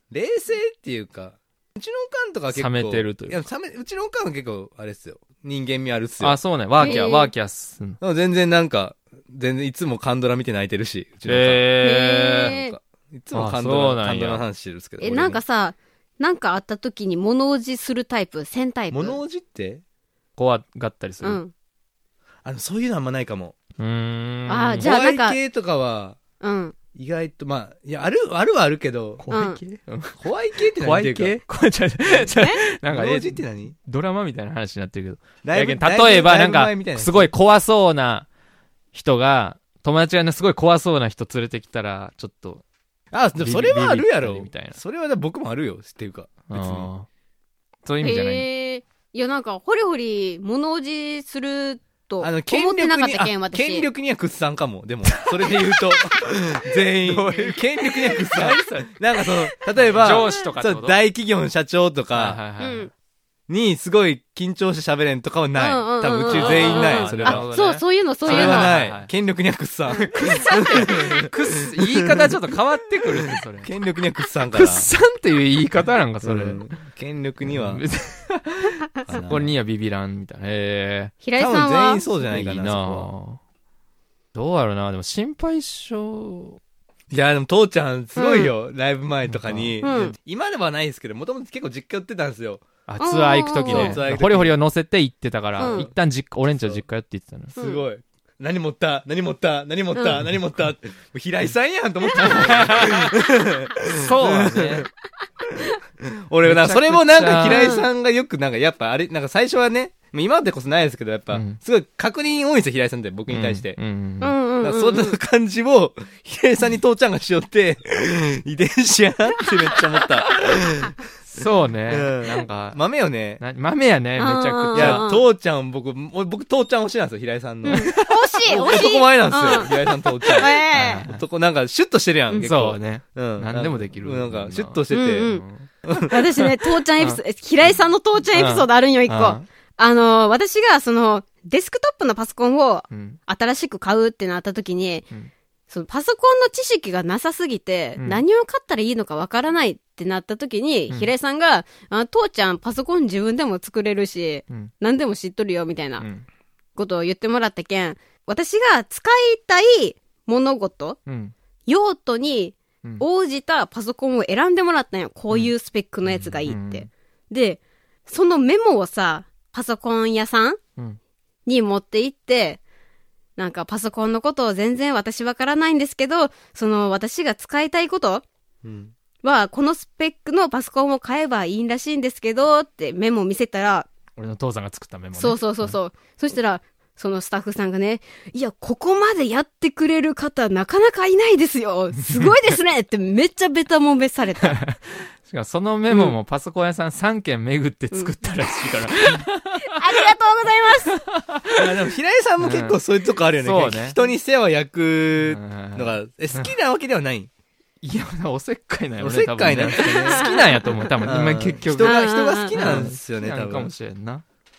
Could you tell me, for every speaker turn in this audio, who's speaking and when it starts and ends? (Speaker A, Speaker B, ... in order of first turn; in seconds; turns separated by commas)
Speaker A: 0.1-7.1, Speaker B: 2.5-3.4, Speaker B: 6.2-8.0, Speaker C: 6.8-7.3, Speaker A: 8.0-15.4, Speaker B: 11.2-12.5, Speaker C: 11.8-12.8, Speaker B: 13.3-14.4, Speaker C: 15.0-19.2, Speaker A: 18.9-19.8, Speaker B: 20.4-21.4, Speaker C: 21.2-21.5, Speaker A: 22.4-23.6, Speaker B: 23.8-24.9, Speaker C: 24.5-25.4, Speaker A: 24.8-26.2, Speaker C: 26.4-26.8, Speaker A: 26.9-29.3, Speaker B: 29.2-30.2, Speaker C: 29.3-29.6, Speaker A: 30.2-31.4, Speaker B: 30.8-38.3, Speaker C: 32.3-32.6, Speaker A: 32.9-33.8, Speaker A: 35.4-37.3, Speaker B: 38.9-42.6, Speaker A: 43.1-46.9, Speaker B: 43.4-44.8, Speaker B: 46.5-47.1, Speaker B: 47.9-48.5, Speaker C: 48.0-53.9, Speaker A: 52.2-62.4, Speaker B: 55.1-55.6, Speaker B: 57.0-59.0, Speaker B: 59.7-61.0, Speaker B: 62.1-62.9, Speaker C: 62.6-62.9, Speaker A: 63.5-67.5, Speaker C: 65.6-68.8, Speaker B: 66.2-69.1, Speaker A: 68.3-72.3, Speaker B: 69.9-73.7, Speaker A: 73.6-74.9, Speaker B: 74.5-76.7, Speaker A: 76.2-77.8, Speaker B: 77.4-81.2, Speaker A: 79.0-79.5, Speaker C: 81.2-82.4, Speaker A: 81.4-83.1, Speaker B: 82.3-83.4, Speaker B: 84.3-86.6, Speaker A: 87.1-92.7, Speaker C: 88.2-88.5, Speaker B: 89.3-89.8, Speaker C: 89.8-90.1, Speaker B: 92.9-97.6, Speaker C: 93.0-94.0, Speaker A: 93.7-94.6, Speaker C: 95.6-95.9, Speaker A: 95.6-95.9, Speaker A: 96.5-96.8, Speaker C: 97.6-97.8, Speaker A: 97.6-104.9, Speaker C: 99.9-100.2, Speaker B: 102.2-103.2, Speaker B: 104.0-104.9, Speaker A: 106.0-113.8, Speaker B: 106.4-107.8, Speaker B: 111.3-111.6, Speaker B: 113.3-114.4, Speaker C: 114.2-115.2, Speaker A: 114.6-120.9, Speaker B: 121.2-125.1, Speaker A: 121.9-123.4, Speaker C: 124.2-125.3, Speaker A: 124.7-135.3, Speaker C: 127.7-129.7, Speaker B: 127.7-128.8, Speaker B: 129.4-131.2, Speaker C: 130.2-131.1, Speaker B: 132.4-137.2, Speaker C: 134.9-135.4, Speaker A: 135.9-136.1, Speaker C: 136.0-145.1, Speaker B: 138.3-139.4, Speaker B: 142.9-143.2, Speaker C: 145.7-156.1, Speaker B: 156.0-156.3, Speaker C: 156.8-161.0, Speaker B: 161.1-161.3, Speaker C: 161.7-170.6, Speaker B: 166.1-166.9, Speaker C: 171.5-172.6, Speaker C: 173.4-178.2, Speaker A: 178.6-178.9, Speaker C: 179.2-183.9, Speaker B: 184.2-185.8, Speaker C: 185.2-194.6, Speaker B: 192.0-192.3, Speaker B: 194.5-199.8, Speaker C: 199.1-201.0, Speaker B: 201.1-201.7, Speaker A: 201.6-207.3, Speaker B: 202.4-202.8, Speaker B: 203.4-204.0, Speaker B: 205.2-206.5, Speaker B: 207.8-214.2, Speaker A: 209.0-210.3, Speaker C: 209.8-210.9, Speaker A: 211.0-213.7, Speaker C: 211.8-212.6